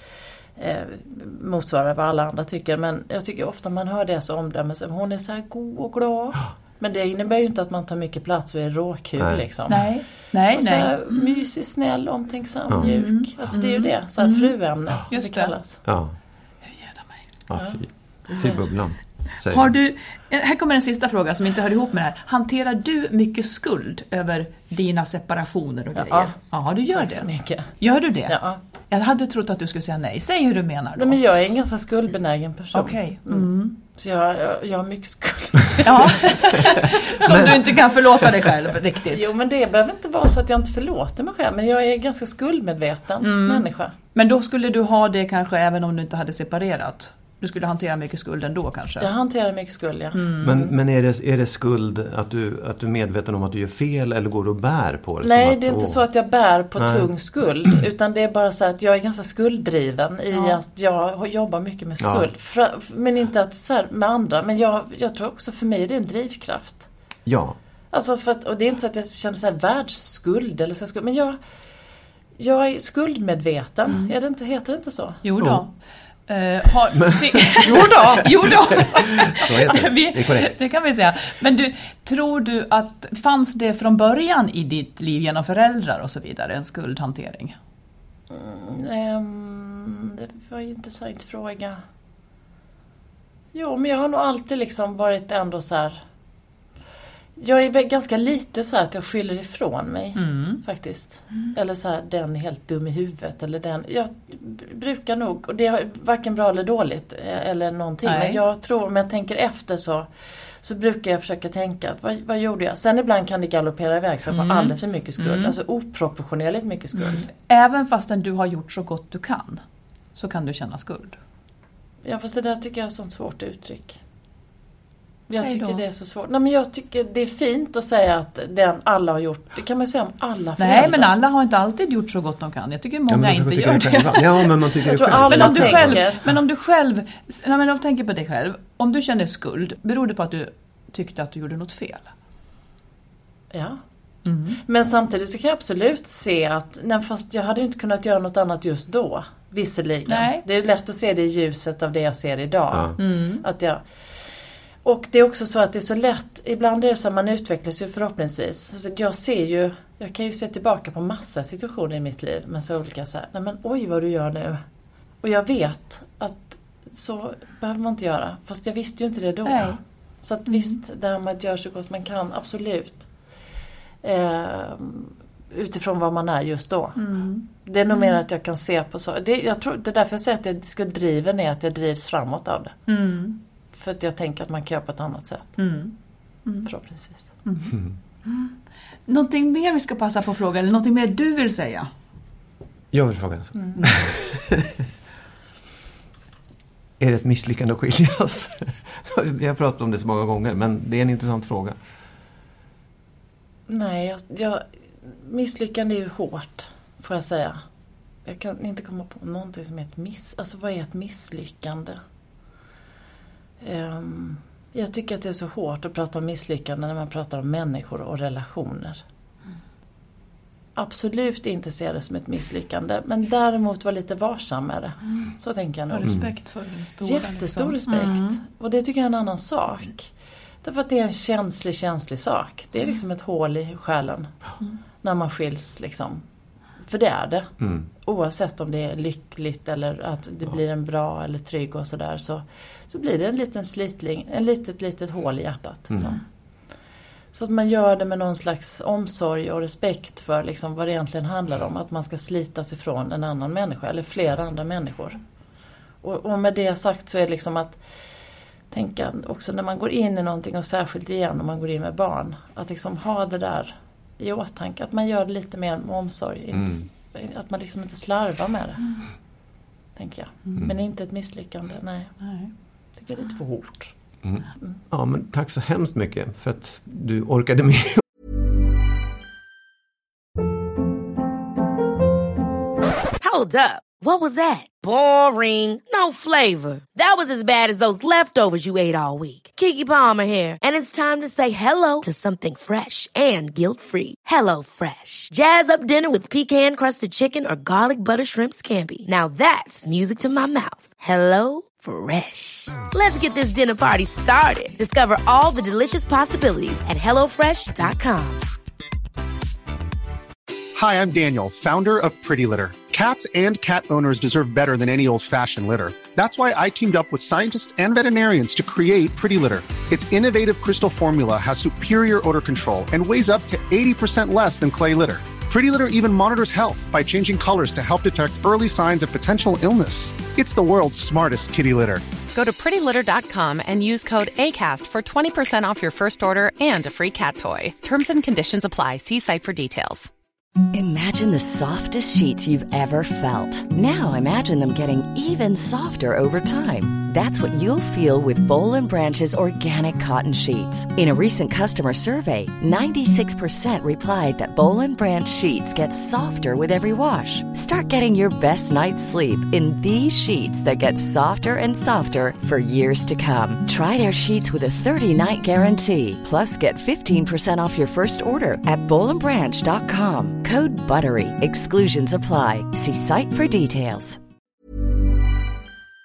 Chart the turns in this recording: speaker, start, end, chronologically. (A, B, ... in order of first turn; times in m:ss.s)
0:00.6-0:09.9 A
0:09.2-0:09.4 B
0:09.7-0:11.4 C
0:10.5-0:15.8 A
0:12.7-0:13.6 B
0:12.8-0:14.6 C
0:15.1-0:15.5 C
0:15.8-0:16.2 B
0:16.7-0:17.2 C
0:17.5-0:19.8 B
0:18.3-0:18.6 A
0:19.5-0:27.3 C
0:26.0-0:28.6 A
0:27.8-0:28.4 C
0:28.9-0:31.2 C
0:31.0-0:36.7 A
0:32.7-0:33.8 C
0:35.8-0:39.3 C
0:37.3-0:37.5 B
0:39.1-0:43.9 A
0:43.2-0:49.1 C
0:49.0-0:50.7 A
0:50.2-0:50.5 C
0:50.4-0:56.0 B
0:55.2-1:06.9 A
0:56.8-0:57.1 B
1:00.3-1:00.6 C
1:02.0-1:02.3 B
1:07.3-1:07.6 B
1:07.9-1:11.4 A
1:12.4-1:15.2 A
1:15.2-1:15.7 C
1:15.4-1:15.7 B
1:16.3-1:27.6 C
1:16.9-1:20.6 B
1:28.3-1:31.8 A
1:33.5-1:36.0 A
1:37.4-1:50.1 A
1:40.2-1:40.6 C
1:48.0-1:48.4 C
1:50.6-1:57.3 A
1:54.3-1:55.6 C
1:57.0-1:59.6 C
2:00.2-2:01.2 C
2:02.0-2:04.0 A
2:05.3-2:11.1 A
2:05.3-2:05.8 C
2:10.6-2:22.1 C
2:13.1-2:16.3 B
2:14.9-2:16.2 A
2:23.5-2:23.8 A
2:24.2-2:24.6 C
2:24.7-2:33.8 A
2:30.1-2:30.4 C
2:33.0-2:33.4 C
2:34.8-2:44.6 A
2:45.2-2:53.1 A
2:49.5-2:49.8 C
2:50.5-2:50.8 C
2:54.0-3:02.8 A
2:57.0-2:58.2 C
3:02.9-3:03.4 C
3:03.7-3:05.6 A
3:05.6-3:05.9 C
3:06.6-3:07.3 A
3:07.4-3:08.5 C
3:09.1-3:11.9 C
3:12.9-3:14.7 B
3:17.0-3:21.8 B
3:23.7-3:27.6 A
3:28.2-3:32.0 A
3:33.6-3:39.0 A
3:40.8-3:46.3 A
3:45.9-3:48.4 C
3:47.0-3:50.1 A
3:50.6-3:54.3 A
3:55.0-3:56.2 A
3:56.8-4:06.2 A
3:57.6-3:57.9 B
4:05.9-4:06.2 B
4:07.3-4:15.2 A
4:16.0-4:17.8 A
4:18.7-4:29.0 A
4:26.5-4:26.8 B
4:30.0-4:32.3 A
4:32.2-4:32.5 C
4:33.0-4:34.0 A
4:34.2-4:38.0 B
4:43.2-5:08.5 D
5:10.8-5:32.1 E
5:32.3-5:40.1 F
5:40.7-6:14.2 G